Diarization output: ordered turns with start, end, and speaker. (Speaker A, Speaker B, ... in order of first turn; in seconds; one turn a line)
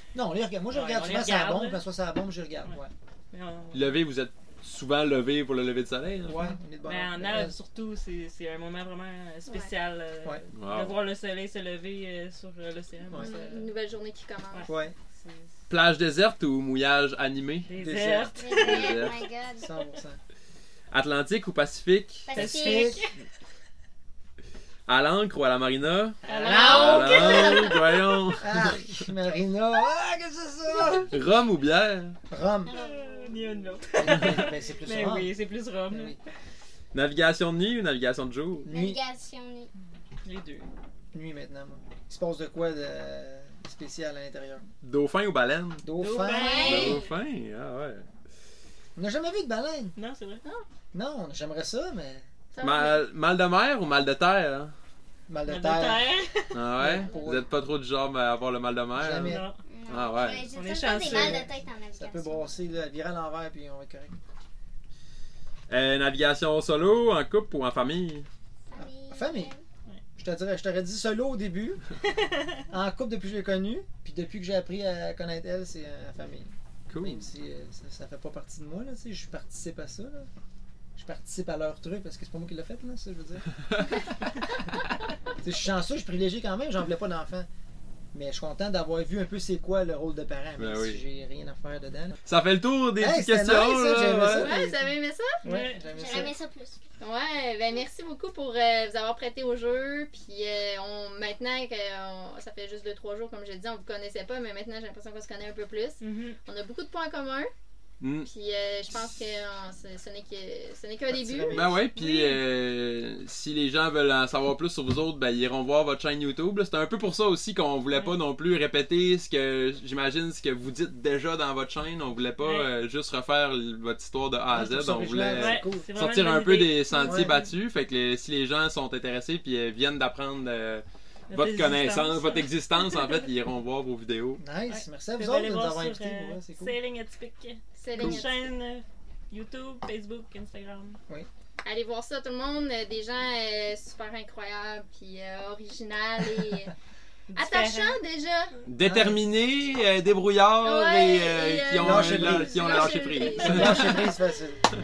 Speaker A: 0.1-2.9
Speaker B: 0.7-1.8
Speaker B: 3.3-4.0
Speaker C: 3.7-6.5
Speaker A: 6.2-7.6
Speaker B: 6.8-13.5
Speaker C: 10.5-11.0
Speaker A: 13.1-13.7
Speaker D: 13.1-14.7
Speaker B: 14.5-15.5
Speaker A: 14.7-14.9
Speaker C: 15.7-17.7
Speaker B: 17.6-19.0
Speaker A: 17.8-18.6
Speaker E: 18.3-19.7
Speaker C: 18.5-19.2
Speaker A: 19.6-20.2
Speaker C: 20.9-22.6
Speaker E: 22.3-23.1
Speaker A: 22.3-23.0
Speaker B: 22.4-23.1
Speaker C: 24.9-29.0
Speaker B: 26.2-27.7
Speaker A: 26.3-27.7
Speaker D: 26.7-27.7
Speaker A: 28.4-31.1
Speaker C: 31.1-32.2
Speaker A: 32.3-32.8
Speaker E: 32.6-33.5
Speaker B: 32.7-36.2
Speaker A: 34.0-35.3
Speaker A: 35.9-36.2
Speaker C: 36.9-38.7
Speaker A: 38.6-39.0
Speaker E: 38.7-39.7
Speaker B: 40.2-40.7
Speaker A: 41.1-44.6
Speaker C: 44.8-45.8
Speaker A: 45.8-47.0
Speaker B: 46.0-47.1
Speaker E: 46.2-47.0
Speaker C: 46.6-48.1
Speaker A: 49.0-50.0
Speaker B: 50.0-50.4
Speaker A: 50.9-52.3
Speaker D: 52.5-53.0
Speaker C: 52.6-54.7
Speaker A: 55.3-57.5
Speaker B: 55.5-56.6
Speaker C: 56.5-60.5
Speaker D: 56.9-57.3
Speaker A: 58.9-59.5
Speaker B: 59.2-59.6
Speaker E: 59.6-62.5
Speaker B: 60.5-61.5
Speaker A: 61.0-64.2
Speaker C: 65.7-68.3
Speaker E: 68.7-69.6
Speaker A: 68.7-69.5
Speaker A: 70.2-71.8
Speaker B: 72.1-72.6
Speaker A: 72.7-80.3
Speaker C: 76.9-77.2
Speaker A: 81.0-83.4
Speaker C: 83.7-83.9
Speaker A: 85.4-87.5
Speaker A: 88.1-92.2
Speaker C: 90.6-91.0
Speaker C: 92.3-94.5
Speaker A: 93.0-96.4
Speaker D: 94.0-95.4
Speaker B: 95.4-96.3
Speaker E: 95.9-96.8
Speaker D: 97.0-107.5
Speaker B: 106.0-106.4
Speaker C: 108.0-108.3
Speaker D: 108.2-111.7
Speaker A: 111.1-111.8
Speaker C: 111.5-134.4
Speaker B: 111.9-112.4
Speaker B: 117.9-118.2
Speaker B: 122.4-122.7
Speaker A: 124.5-125.8
Speaker B: 125.3-127.5
Speaker A: 127.0-127.4
Speaker B: 131.3-133.3
Speaker A: 134.4-136.8
Speaker B: 134.7-141.0
Speaker D: 137.8-138.5
Speaker D: 141.6-146.7
Speaker B: 147.3-148.0
Speaker D: 147.3-148.5
Speaker C: 148.7-154.0
Speaker A: 148.8-149.2
Speaker D: 150.6-154.0
Speaker A: 151.8-152.5
Speaker A: 153.4-154.6